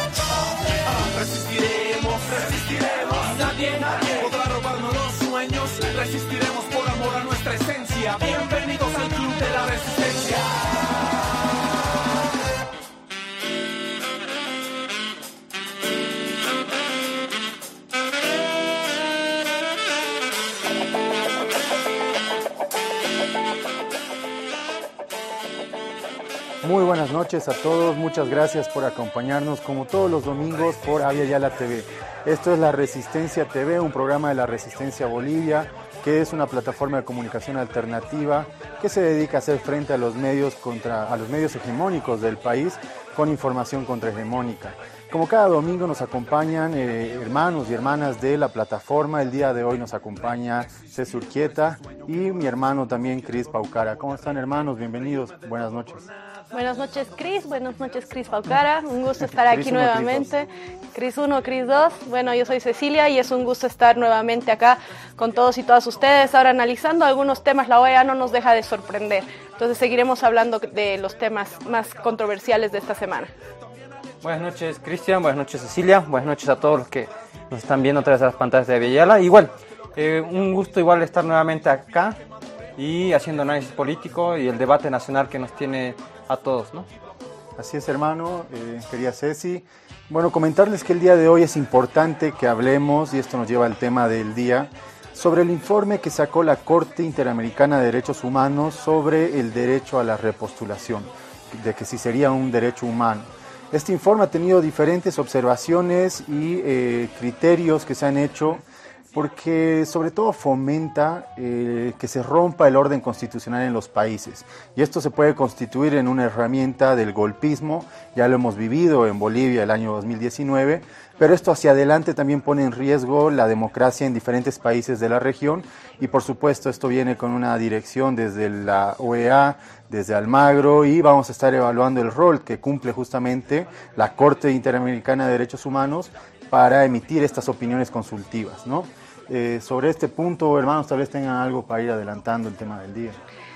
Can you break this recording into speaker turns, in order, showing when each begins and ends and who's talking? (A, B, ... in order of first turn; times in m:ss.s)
0:00.8-0:10.8 A
0:26.6-0:56.1 B
0:56.5-1:13.3 C
0:59.4-1:00.3 B
1:14.2-1:22.2 D
1:22.8-1:26.9 D
1:27.6-2:23.2 B